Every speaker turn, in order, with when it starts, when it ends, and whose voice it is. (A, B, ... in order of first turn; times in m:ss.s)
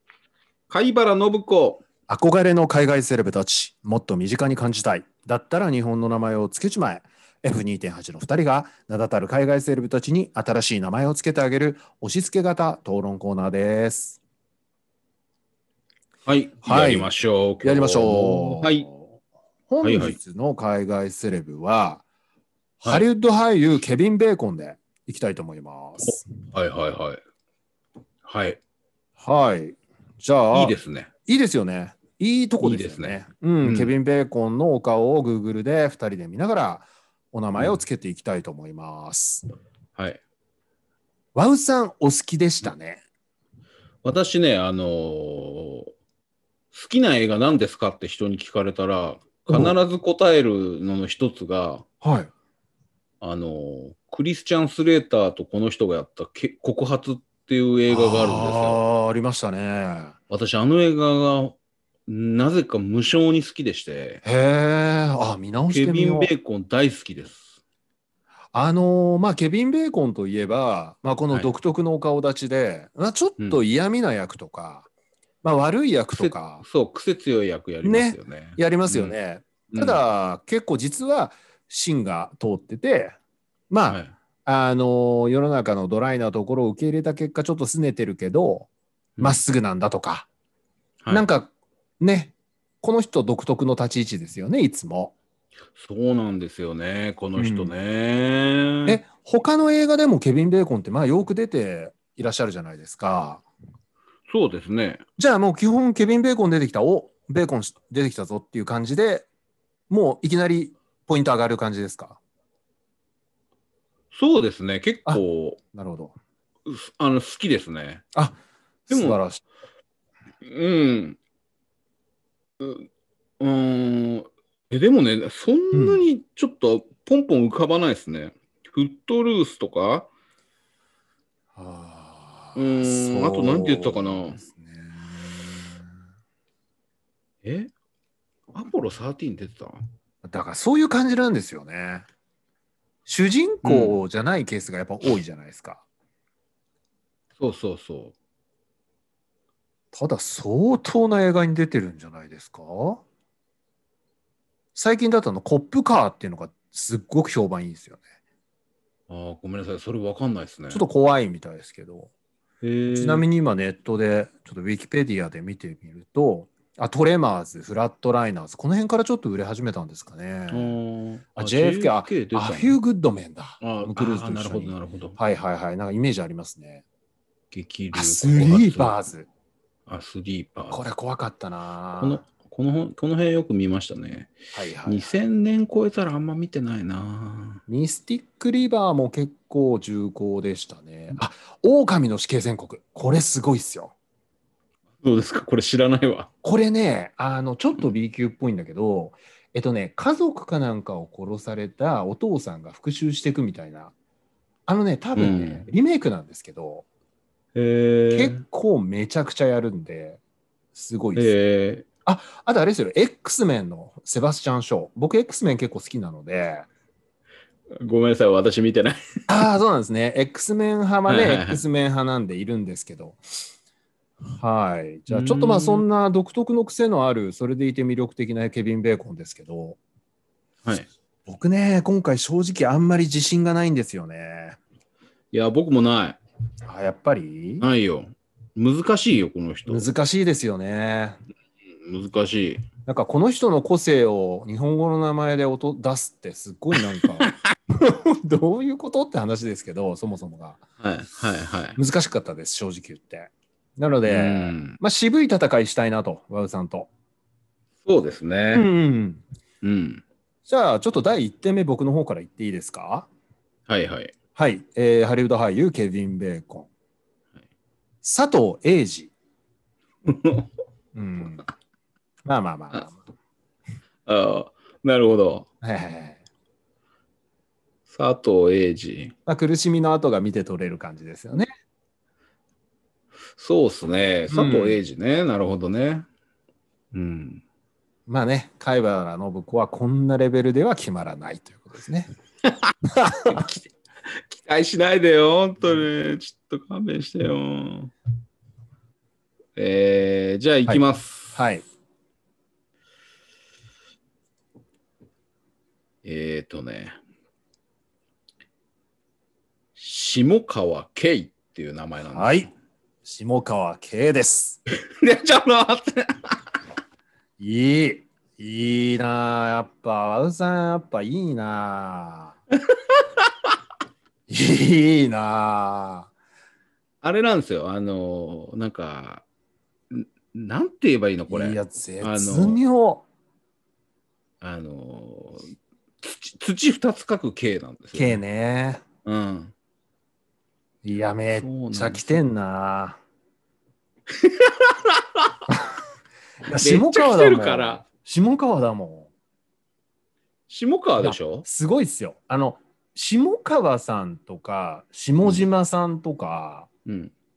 0:00.7-0:01.8 A
0:02.1-0:14.2 B
0:16.2-0:18.8 A
0:16.6-0:17.1 B
0:17.6-0:19.2 B
0:19.7-0:22.0 B
0:19.8-0:20.2 A
0:22.8-0:23.0 A
0:22.8-0:26.2 B
0:26.0-0:27.2 A
0:28.2-0:28.6 A
0:29.2-0:39.5 B
0:30.5-0:31.1 A
0:32.6-0:33.9 A
0:41.3-0:43.0 B
0:44.0-0:45.9 A
0:46.7-0:51.8 A
0:49.5-0:49.7 B
0:52.0-0:52.3 B
0:53.2-0:58.8 A
0:57.9-1:00.1 B
1:00.3-1:01.6 A
1:02.1-1:04.2 A
1:04.2-1:06.3 B
1:05.7-1:07.6 A
1:08.5-1:14.9 B
1:15.4-1:16.6 B
1:16.2-1:19.2 A
1:17.8-1:23.2 B
1:19.7-1:20.0 A
1:23.7-1:28.7 B
1:23.9-1:24.1 A
1:29.2-1:30.3 B
1:31.1-1:35.1 B
1:35.8-1:39.0 A
1:37.4-1:37.7 B
1:38.8-1:43.4 B
1:44.3-1:45.0 A
1:45.2-1:49.2 B
1:49.9-1:52.2 B
1:54.1-1:55.6 A
1:55.7-1:56.2 B
1:56.6-1:58.0 A
1:58.1-1:59.4 B
1:58.9-1:59.2 A
2:00.4-2:01.2 A
2:02.6-2:02.9 A
2:03.4-2:10.1 A
2:05.7-2:06.0 B
2:11.5-2:15.8 B
2:12.5-2:14.4 A
2:17.4-2:17.7 A
2:18.5-2:19.8 A
2:20.2-2:22.0 B
2:23.0-2:25.8 B
2:23.6-2:24.0 A
2:27.4-2:28.1 A
2:29.9-2:33.0 B
2:34.7-2:38.0 B
2:39.1-2:40.8 A
2:40.7-2:42.1 B
2:42.6-2:43.2 A
2:42.9-2:50.8 B
2:50.5-2:52.8 A
2:51.4-2:56.8 B
2:53.6-2:55.2 A
2:57.5-2:59.0 A
2:57.9-2:59.3 B
2:59.9-3:00.8 A
3:00.7-3:02.2 B
3:02.0-3:04.3 A
3:04.5-3:05.2 B
3:04.8-3:07.6 A
3:07.7-3:13.9 B
3:15.0-3:16.3 A
3:16.4-3:23.9 B
3:24.7-3:26.8 B
3:25.2-3:25.6 A
3:27.5-3:28.4 A
3:28.1-3:30.2 B
3:30.7-3:31.3 B
3:31.1-3:31.8 A
3:32.0-3:36.6 B
3:37.8-3:39.0 A
3:39.3-3:43.2 B
3:41.1-3:41.6 A
3:44.4-3:49.8 B
3:45.1-3:45.8 A
3:51.3-3:54.6 B
3:55.3-3:56.2 A
3:56.6-3:57.6 B
3:57.6-3:59.9 A
3:59.7-4:01.2 B
4:01.8-4:02.7 A
4:02.8-4:10.6 B
4:10.8-4:11.8 A
4:11.8-4:16.9 B
4:14.0-4:14.8 A
4:17.8-4:18.7 A
4:18.5-4:19.2 B
4:19.6-4:20.0 A
4:20.4-4:23.1 B
4:23.7-4:24.1 A
4:24.3-4:26.7 B
4:28.0-4:29.1 B
4:30.0-4:30.5 A
4:30.9-4:31.5 B
4:32.2-4:33.0 B
4:34.0-4:35.5 A
4:35.6-4:36.2 B
4:37.9-4:39.1 A
4:39.2-4:41.5 B
4:43.4-4:46.1 A
4:44.3-4:44.8 B
4:46.9-4:47.4 A
4:48.1-4:52.1 B
4:53.0-4:53.4 B
4:53.3-4:53.6 A
4:54.3-4:57.9 A
4:59.6-5:01.4 A
5:00.7-5:01.6 B
5:06.0-5:07.0 A
5:09.8-5:12.5 A
5:12.1-5:12.5 B
5:13.0-5:14.6 B
5:14.9-5:16.3 A
5:17.4-5:22.4 B
5:24.3-5:26.1 B
5:27.0-5:29.2 A
5:29.9-5:32.6 A
5:31.3-5:33.0 B
5:34.4-5:35.5 A
5:36.0-5:38.2 A
5:37.9-5:38.8 B
5:39.0-5:39.5 A
5:40.8-5:43.0 B
5:41.3-5:42.0 A
5:44.2-5:45.2 A
5:46.4-5:49.1 B
5:46.6-5:47.8 A
5:50.5-5:51.4 A
5:51.0-5:56.7 B
5:56.8-5:57.1 A